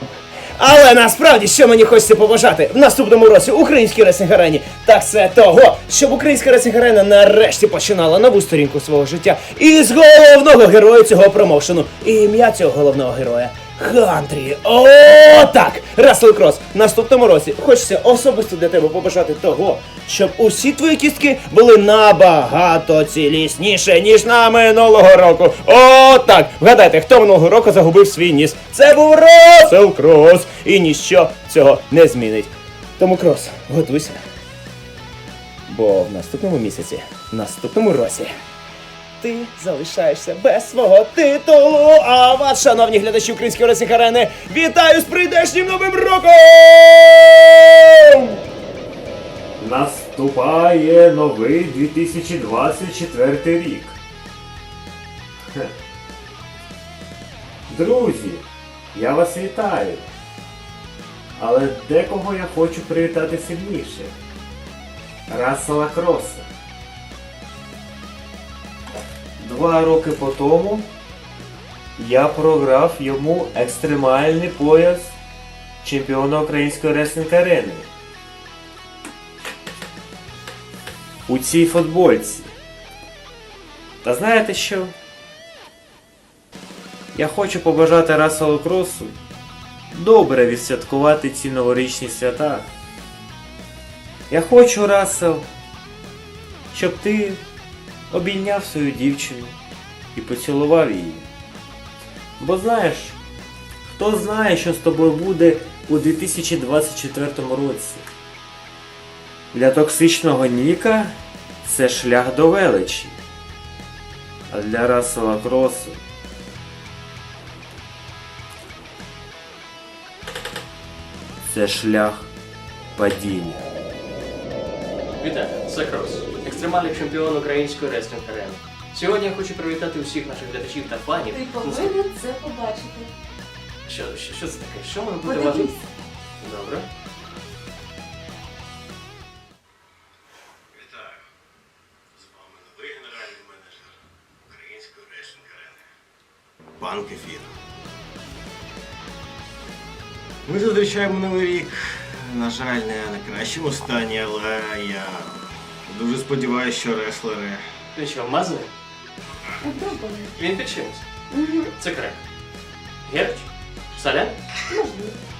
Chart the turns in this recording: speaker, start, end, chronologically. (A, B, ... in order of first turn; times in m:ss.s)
0:00.5-0:34.2 A
0:35.7-0:38.3 A
0:39.2-0:48.4 A
0:49.6-0:54.0 B
0:57.7-1:00.0 B
1:01.4-1:04.1 B
1:05.3-1:06.4 B
1:09.4-1:10.9 B
1:12.0-1:15.2 B
1:15.8-1:17.9 B
1:21.3-1:22.5 B
1:24.0-1:24.9 B
1:27.1-1:29.1 B
1:29.9-1:32.7 B
1:34.3-1:35.5 B
1:36.7-1:37.4 B
1:38.1-1:39.5 B
1:40.1-1:41.2 B
1:42.4-1:43.2 B
1:43.9-1:48.0 B
1:49.5-1:51.1 B
1:51.6-1:53.2 B
1:54.5-1:56.0 B
2:01.4-2:02.3 B
2:03.0-2:03.7 B
2:05.2-2:12.1 C
2:11.3-2:13.1 D
2:13.8-2:15.7 C
2:15.2-2:15.8 D
2:16.4-2:16.9 C
2:20.7-2:21.2 E
2:22.1-2:23.9 E
2:24.5-2:25.8 E
2:26.8-2:27.6 E
2:30.4-2:37.6 E
2:37.9-2:38.7 C
2:39.6-2:40.4 D
2:40.4-2:41.1 C
2:41.3-2:41.8 D
2:41.7-2:42.2 C
2:43.0-2:44.4 C
2:44.7-2:45.1 D